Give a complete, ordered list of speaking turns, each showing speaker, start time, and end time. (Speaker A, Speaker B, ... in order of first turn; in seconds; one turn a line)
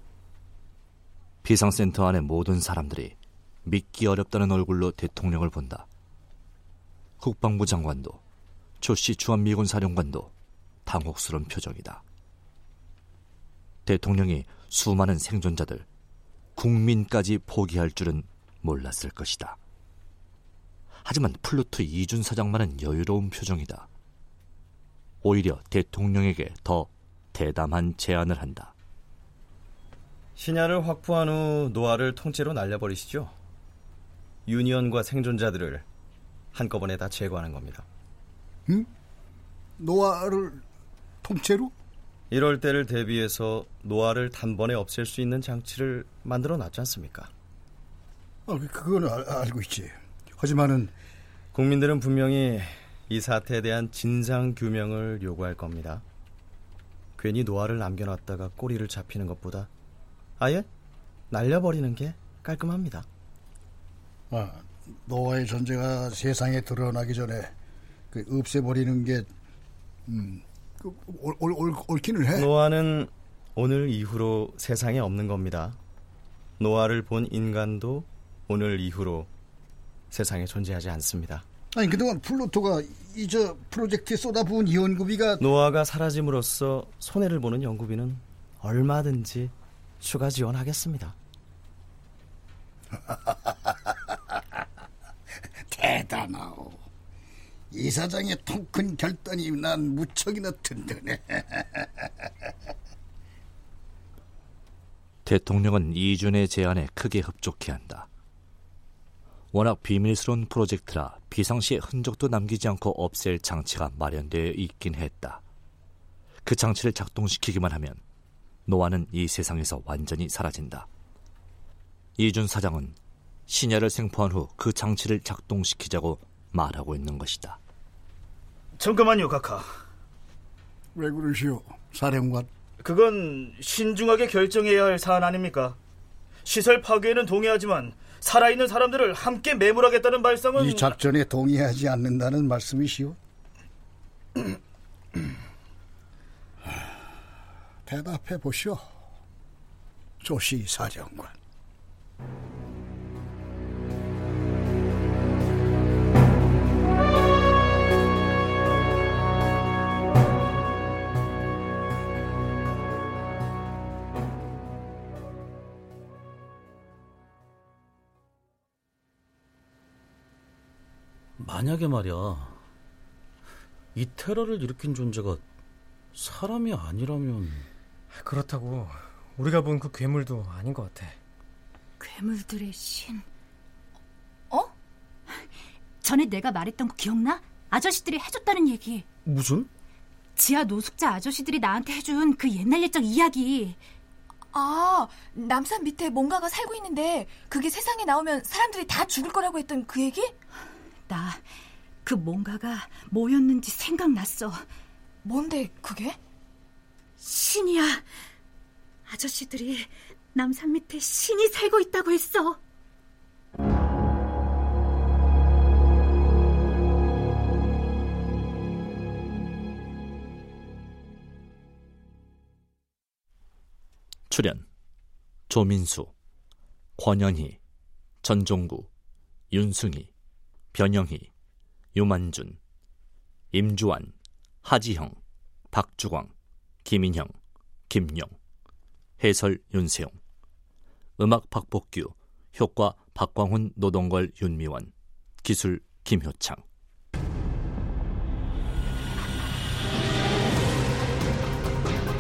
Speaker A: 1.4-5.9
Speaker A: 7.2-8.2
Speaker A: 8.8-10.3
Speaker A: 10.9-12.0
Speaker A: 13.9-15.9
Speaker A: 16.6-19.6
Speaker A: 21.0-23.9
Speaker A: 25.2-28.7
Speaker B: 30.4-33.3
Speaker B: 34.5-35.9
Speaker B: 36.5-37.9
Speaker C: 39.8-40.6
Speaker C: 41.2-41.7
Speaker B: 42.3-47.3
Speaker C: 48.5-50.9
Speaker B: 51.5-56.0
Speaker B: 57.2-59.7
Speaker B: 60.4-60.7
Speaker B: 61.3-63.1
Speaker C: 64.3-67.5
Speaker C: 68.1-69.3
Speaker C: 70.1-72.5
Speaker B: 72.3-75.8
Speaker B: 76.6-79.3
Speaker B: 80.1-81.5
Speaker C: 81.7-85.4
Speaker B: 85.4-91.2
Speaker C: 93.1-93.7
Speaker C: 95.7-96.8
Speaker C: 97.7-102.1
Speaker A: 105.2-108.1
Speaker A: 109.5-115.4
Speaker A: 116.5-118.0
Speaker A: 118.7-120.9
Speaker A: 122.2-123.0
Speaker A: 123.5-127.6
Speaker D: 128.8-129.7
Speaker C: 130.9-132.5
Speaker D: 132.8-135.8
Speaker D: 136.4-141.0
Speaker C: 140.6-143.2
Speaker C: 147.9-148.8
Speaker C: 150.2-151.3
Speaker E: 171.4-172.6
Speaker E: 173.9-175.4
Speaker E: 176.2-177.7
Speaker F: 178.1-181.2
Speaker G: 182.0-183.3
Speaker G: 186.0-189.1
Speaker E: 189.2-189.7
Speaker G: 190.4-193.8
Speaker H: 194.5-200.3
Speaker G: 201.1-201.4
Speaker G: 202.0-204.7
Speaker H: 205.2-206.2
Speaker G: 207.2-208.1
Speaker G: 209.1-212.6
Speaker A: 224.3-224.6
Speaker A: 225.5-226.1
Speaker A: 227.0-227.6
Speaker A: 228.2-228.9
Speaker A: 229.5-230.1
Speaker A: 230.7-231.3
Speaker A: 231.9-232.6
Speaker A: 233.5-235.2
Speaker A: 235.7-236.3
Speaker A: 236.8-237.3
Speaker A: 237.9-238.3
Speaker A: 239.2-240.2
Speaker A: 241.2-246.6